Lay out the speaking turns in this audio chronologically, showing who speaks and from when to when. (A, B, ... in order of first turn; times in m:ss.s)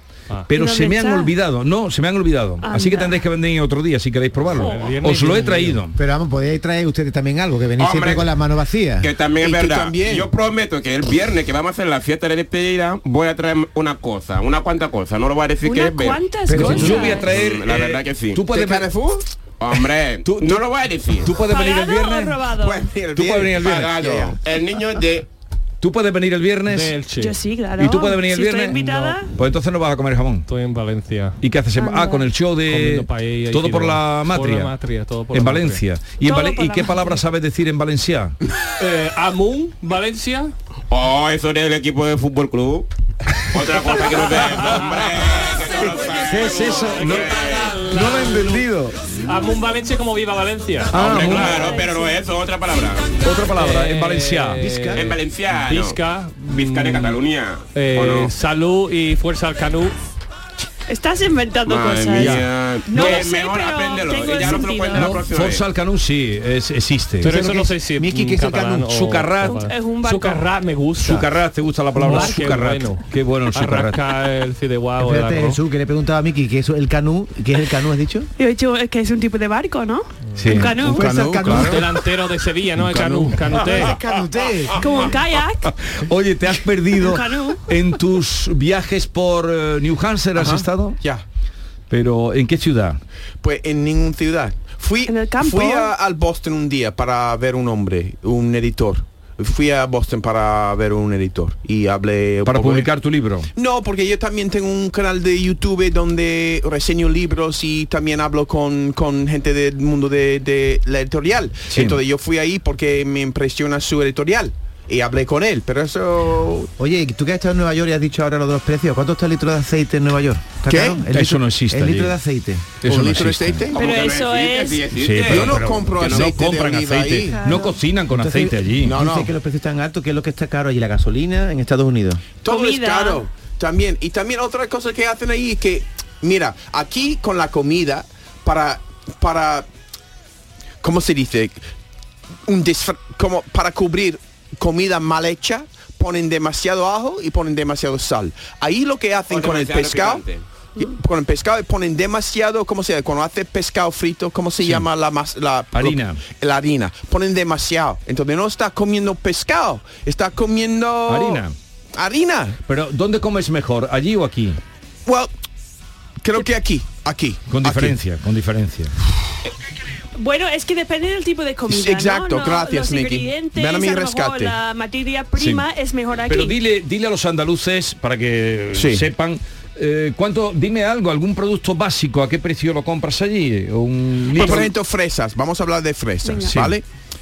0:00.5-0:06.0 A
0:00.5-0:01.3 B
0:02.6-0:03.2 B
0:04.5-0:05.8 C
0:06.0-0:09.1 D
0:07.8-0:08.3 E
0:09.0-0:18.4 E
0:09.4-0:10.3 F
0:15.6-0:17.3 B
0:16.5-0:17.1 D
0:16.5-0:18.9 A
0:18.5-0:19.2 F
0:19.6-0:21.3 E
0:20.2-0:20.6 A
0:21.2-0:22.4 A
0:21.4-0:22.9 B
0:22.6-0:24.4 F
0:23.1-0:24.0 A
0:23.5-0:25.2 E
0:25.8-0:27.0 A
0:26.7-0:27.4 C
0:27.1-0:29.3 B
0:27.8-0:28.8 A
0:28.7-0:29.2 C
0:29.3-0:30.4 A
0:30.5-0:31.4 C
0:31.4-0:34.7 A
0:31.7-0:32.3 B
0:32.6-0:35.8 C
0:35.3-0:38.3 A
0:36.2-0:37.2 B
0:38.8-0:40.5 C
0:40.9-0:42.9 E
0:43.5-0:47.8 E
0:43.8-0:45.0 C
0:46.1-0:48.6 C
0:46.3-0:49.0 A
0:49.2-0:51.8 C
0:50.9-0:51.5 A
0:50.9-0:53.2 E
0:51.2-0:52.2 B
0:53.2-0:54.7 A
0:53.5-0:57.2 C
0:54.6-0:55.0 D
0:54.9-0:56.0 E
0:56.5-0:58.3 E
0:57.7-1:00.0 C
1:00.9-1:05.2 B
1:01.6-1:05.6 E
1:02.2-1:02.4 A
1:04.9-1:07.3 A
1:07.2-1:09.0 D
1:07.2-1:11.3 C
1:08.9-1:09.7 A
1:09.5-1:10.4 B
1:11.0-1:14.0 A
1:12.0-1:15.6 C
1:15.0-1:18.3 D
1:18.4-1:21.5 B
1:20.4-1:21.6 A
1:20.8-1:21.8 D
1:21.0-1:21.7 F
1:21.5-1:24.0 C
1:22.9-1:23.4 F
1:23.6-1:25.1 D
1:24.8-1:25.7 B
1:25.8-1:31.0 A
1:27.0-1:27.6 B
1:30.4-1:31.2 F
1:31.9-1:33.0 A
1:33.4-1:42.9 F
1:35.0-1:35.9 B
1:42.4-1:43.5 A
1:43.5-1:56.7 F
1:51.7-1:52.0 A
1:56.8-2:02.7 D
2:00.7-2:01.1 F
2:01.1-2:02.1 A
2:02.8-2:03.7 A
2:02.8-2:03.8 F
2:03.7-2:04.9 B
2:03.7-2:06.3 E
2:04.9-2:09.0 A
2:05.2-2:07.5 F
2:07.3-2:07.8 B
2:08.1-2:12.2 D
2:08.8-2:09.3 F
2:12.4-2:19.7 F
2:12.4-2:13.2 B
2:20.8-2:21.6 F
2:22.5-2:30.2 F
2:29.3-2:30.4 E
2:30.8-2:41.4 F
2:34.6-2:34.9 A
2:35.7-2:36.2 A
2:41.1-2:41.5 A
2:41.9-2:42.6 F
2:42.7-2:44.6 A
2:45.0-2:45.3 F
2:46.2-2:48.0 F
2:47.5-2:48.9 A
2:50.2-2:56.6 B
2:51.7-2:54.6 F
2:55.3-2:55.6 A
2:56.2-3:04.7 A
2:58.7-2:59.1 F
3:04.3-3:06.8 F
3:04.4-3:04.6 B
3:06.2-3:06.6 B
3:06.4-3:06.8 A